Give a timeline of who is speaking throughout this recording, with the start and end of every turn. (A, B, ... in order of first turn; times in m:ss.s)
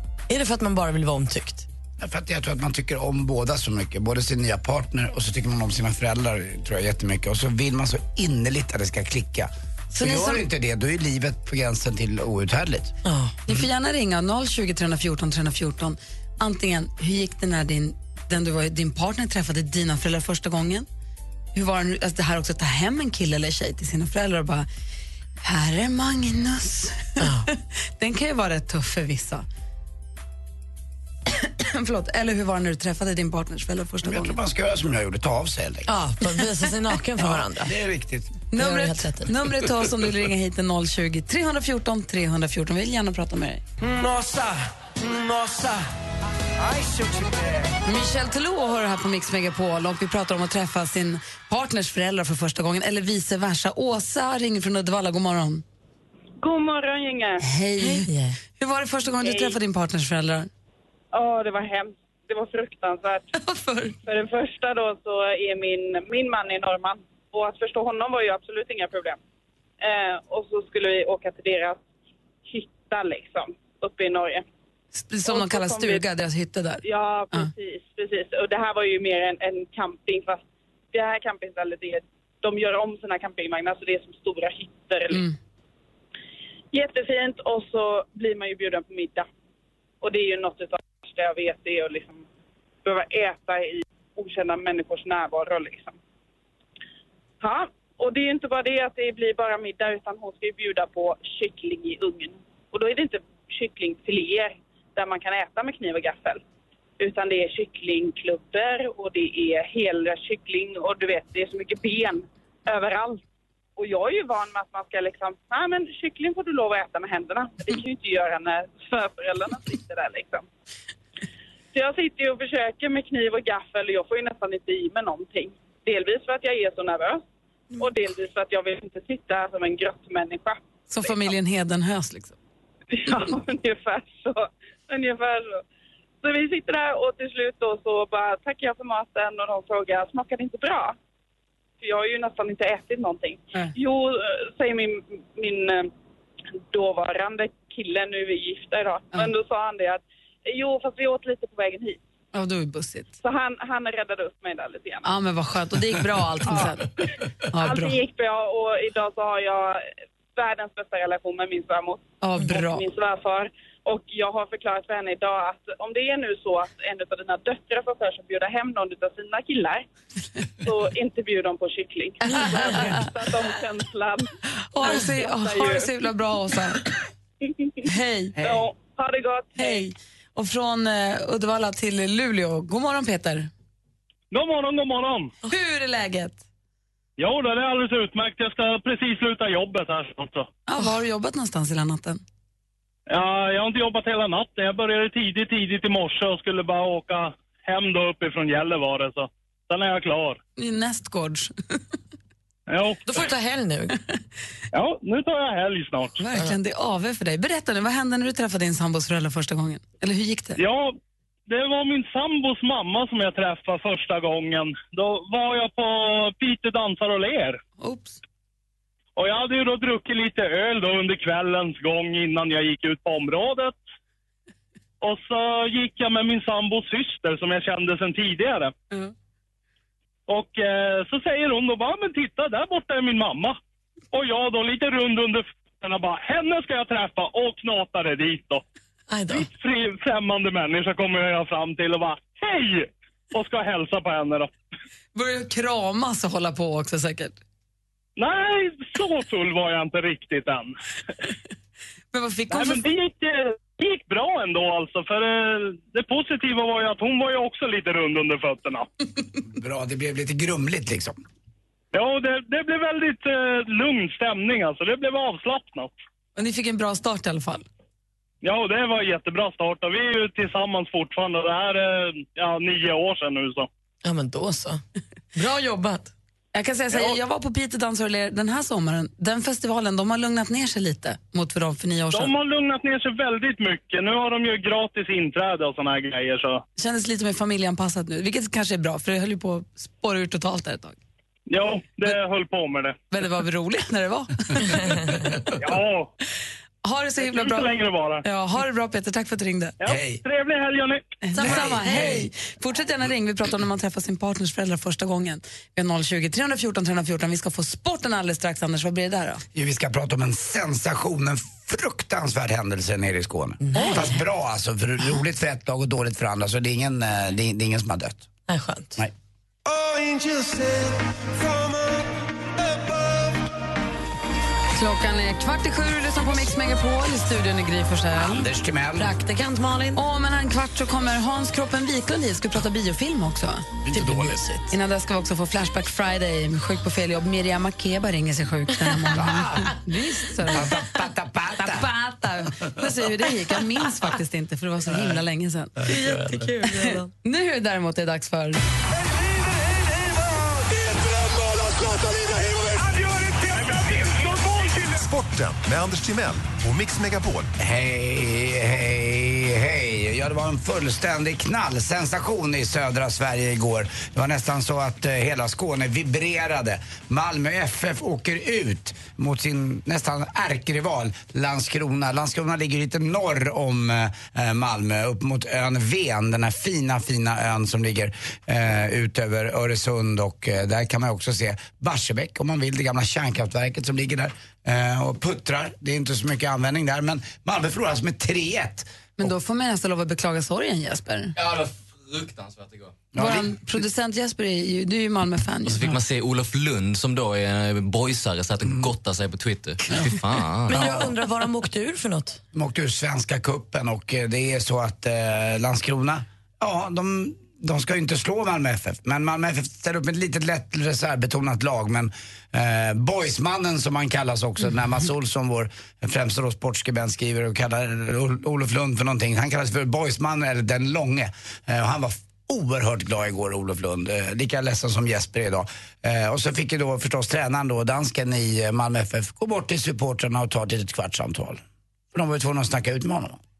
0:00.3-0:01.7 A
0:02.0-0:12.9 B
0:09.9-0:10.4 C
0:13.0-0:13.3 A
0:13.4-0:20.9 C
0:21.5-0:24.7 C
0:25.4-0:29.4 C
0:27.2-0:27.5 A
0:31.3-0:34.4 C
0:34.0-0:35.9 B
0:35.9-0:37.7 A
0:37.2-0:38.4 B
0:38.5-0:43.6 C
0:38.5-0:39.3 A
0:43.8-0:45.8 D
0:46.6-0:47.8 D
0:47.8-0:55.6 C
0:56.4-0:57.4 E
0:57.4-1:00.5 C
0:57.8-0:58.4 A
0:59.2-0:59.6 E
1:01.1-1:03.3 E
1:03.3-1:04.0 C
1:04.0-1:09.2 E
1:09.8-1:11.8 E
1:12.4-1:14.4 E
1:14.9-1:17.5 C
1:15.2-1:16.0 E
1:16.8-1:25.2 E
1:25.1-1:25.4 C
1:26.7-1:29.3 E
1:30.0-1:32.2 E
1:32.8-1:35.9 E
1:37.4-1:46.4 E
1:47.0-1:53.2 E
1:53.8-2:00.4 E
2:01.7-2:07.2 E
2:07.8-2:11.1 E
2:10.9-2:12.4 C
2:12.9-2:15.6 E
2:16.2-2:21.0 E
2:21.8-2:25.9 E
2:26.7-2:32.0 E
2:32.3-2:33.1 C
2:33.2-2:35.1 E
2:35.0-2:36.9 C
2:37.5-2:38.0 C
2:37.6-2:49.8 E
2:42.2-2:42.8 C
2:50.6-2:54.3 E
2:52.3-2:53.0 C
2:54.7-2:56.8 C
2:54.8-2:55.9 E
2:57.8-2:58.4 C
2:58.4-2:59.8 E
2:59.6-3:03.5 C
3:04.3-3:05.3 F
3:05.5-3:06.4 C
3:07.2-3:10.5 F
3:10.7-3:12.2 C
3:13.1-3:20.4 F
3:20.6-3:21.5 C
3:22.7-3:23.0 F
3:23.0-3:24.0 A
3:24.7-3:26.2 F
3:26.2-3:30.6 C
3:30.6-3:31.0 F
3:31.5-3:37.6 F
3:37.8-3:38.2 C
3:39.2-3:43.7 F
3:45.0-3:48.7 F
3:50.3-3:53.6 F
3:54.1-3:58.6 F
3:59.1-3:59.5 A
3:59.3-4:04.5 F
4:05.1-4:07.4 C
4:08.2-4:10.7 F
4:12.1-4:12.8 C
4:12.5-4:18.9 F
4:19.4-4:21.2 B
4:21.9-4:25.9 F
4:26.4-4:27.6 C
4:28.4-4:33.7 F
4:34.0-4:34.8 A
4:35.3-4:36.1 A
4:36.5-4:42.3 C
4:42.1-4:46.6 F
4:46.8-4:51.0 C
4:51.5-4:53.0 F
4:53.1-4:54.9 C
4:55.6-4:56.1 F
4:56.8-4:57.7 C
4:57.2-4:58.2 F
4:58.2-4:59.7 C
4:59.8-5:01.0 F
4:59.8-5:00.2 B
5:01.2-5:09.4 C
5:01.3-5:02.2 A
5:01.4-5:02.2 B
5:09.5-5:18.2 B
5:13.7-5:14.2 A
5:18.5-5:19.0 A
5:19.6-5:22.1 D
5:22.6-5:23.3 D
5:24.8-5:28.5 C
5:28.2-5:29.1 B
5:28.9-5:30.0 A
5:30.0-5:33.6 C
5:33.8-5:34.4 B
5:33.9-5:34.7 A
5:34.7-5:40.8 C
5:39.1-5:39.8 B
5:40.5-5:41.9 B
5:41.6-5:45.7 C
5:45.8-5:47.1 A
5:45.9-5:46.2 B
5:46.7-5:48.6 C
5:50.9-5:57.5 G
5:57.6-6:28.9 B
6:29.2-6:31.3 C
6:33.1-6:33.5 B
6:33.2-6:35.8 C
6:35.7-6:40.9 H
6:38.6-6:38.9 B
6:40.7-6:42.4 A
6:40.7-6:41.1 B
6:42.5-7:11.6 B
7:12.1-7:13.4 B